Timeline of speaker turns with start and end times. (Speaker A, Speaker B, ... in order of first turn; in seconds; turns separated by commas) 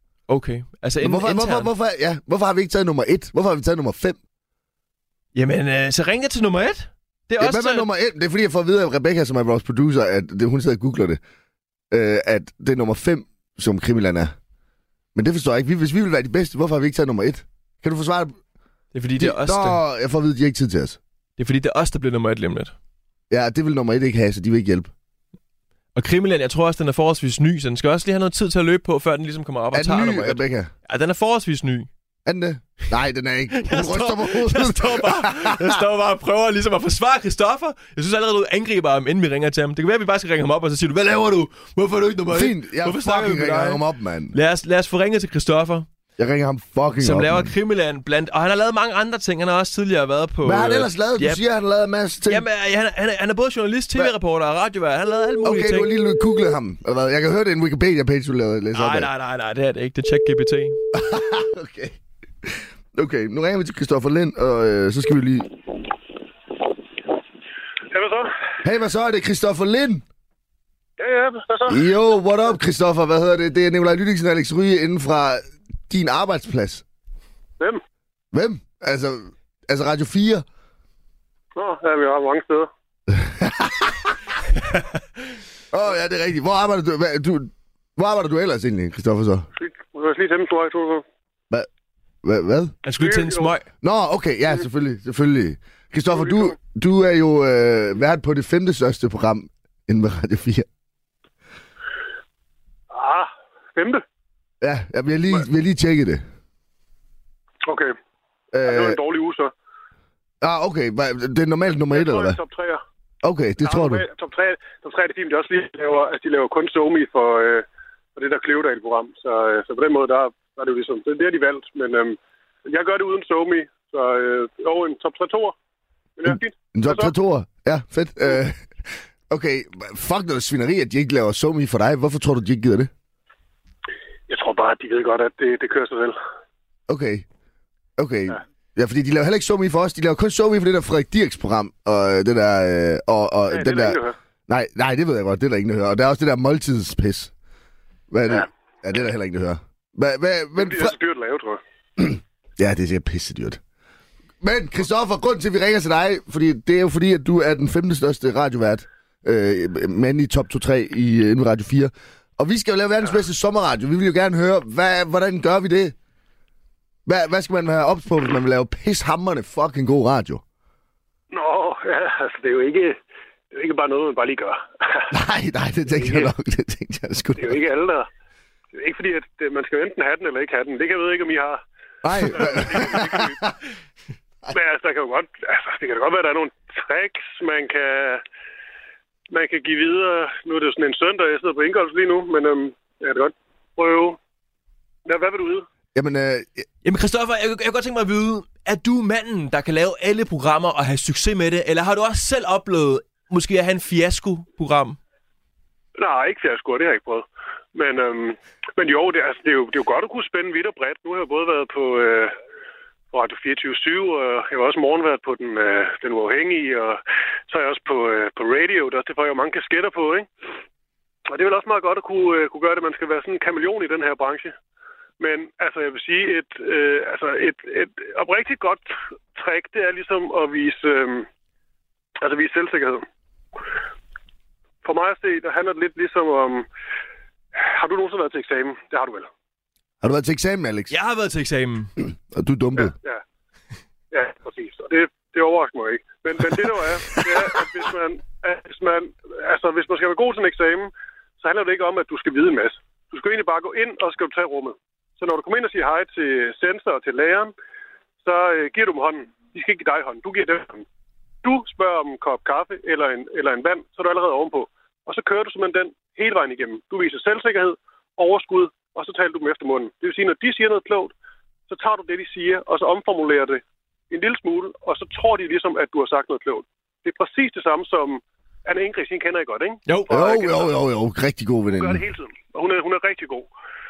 Speaker A: 0.3-1.7, Speaker B: 1.0-4.2, Speaker A: 5.3-7.9, Speaker B: 7.4-11.2, Speaker B: 11.9-14.3, Speaker B: 15.1-18.3, Speaker A: 18.9-19.8, Speaker B: 19.2-21.0, Speaker A: 21.4-22.7, Speaker B: 23.3-24.9, Speaker A: 25.9-31.9, Speaker B: 29.7-30.7, Speaker B: 32.2-35.8, Speaker A: 33.5-45.9, Speaker B: 42.3-44.3, Speaker B: 46.2-47.5, Speaker A: 47.0-51.4, Speaker B: 50.4-52.4, Speaker A: 52.3-55.9, Speaker B: 55.4-59.1, Speaker A: 58.7-60.8, Speaker B: 60.9-65.6, Speaker C: 67.9-68.3, Speaker B: 68.6-70.0, Speaker C: 71.0-71.9, Speaker B: 71.7-76.8, Speaker B: 78.3-80.4, Speaker C: 81.5-82.7, Speaker B: 83.1-84.1, Speaker B: 85.7-89.5, Speaker C: 89.5-91.0, Speaker B: 92.2-92.7, Speaker A: 92.8-93.7, Speaker C: 93.0-93.5, Speaker B: 93.8-100.7, Speaker C: 96.2-96.5, Speaker C: 102.9-104.0, Speaker B: 104.6-106.2, Speaker C: 107.6-107.9, Speaker B: 108.5-109.0, Speaker C: 108.6-109.5, Speaker B: 110.4-112.4, Speaker C: 111.9-112.8, Speaker B: 113.2-114.0, Speaker C: 113.6-125.5, Speaker C: 126.2-127.1, Speaker B: 126.2-132.9, Speaker C: 134.3-136.2, Speaker B: 136.9-137.2, Speaker B: 138.0-147.3, Speaker C: 143.5-144.2, Speaker B: 148.1-150.9, Speaker C: 150.6-151.6, Speaker B: 152.0-153.6, Speaker B: 154.4-165.9, Speaker B: 167.1-170.4, Speaker C: 171.3-173.0, Speaker C: 173.5-175.1, Speaker B: 175.1-177.6, Speaker C: 175.9-176.3, Speaker C: 177.4-178.1, Speaker C: 178.7-181.6, Speaker B: 182.0-183.5, Speaker C: 182.2-183.4, Speaker C: 184.5-188.2, Speaker C: 189.3-194.2, Speaker C: 195.0-195.7, Speaker B: 195.9-196.6, Speaker A: 196.8-205.0, Speaker C: 206.0-212.3, Speaker C: 213.1-220.3, Speaker C: 221.3-224.5, Speaker C: 225.2-231.3, Speaker C: 232.2-233.0, Speaker C: 234.8-236.7, Speaker C: 237.5-239.3, Speaker B: 240.0-240.9, Speaker A: 240.9-241.9, Speaker B: 242.0-242.9, Speaker C: 242.8-243.2, Speaker C: 244.1-257.5, Speaker C: 258.2-260.9, Speaker C: 261.4-271.1, Speaker C: 271.7-280.8, Speaker B: 280.1-282.0, Speaker C: 281.7-283.5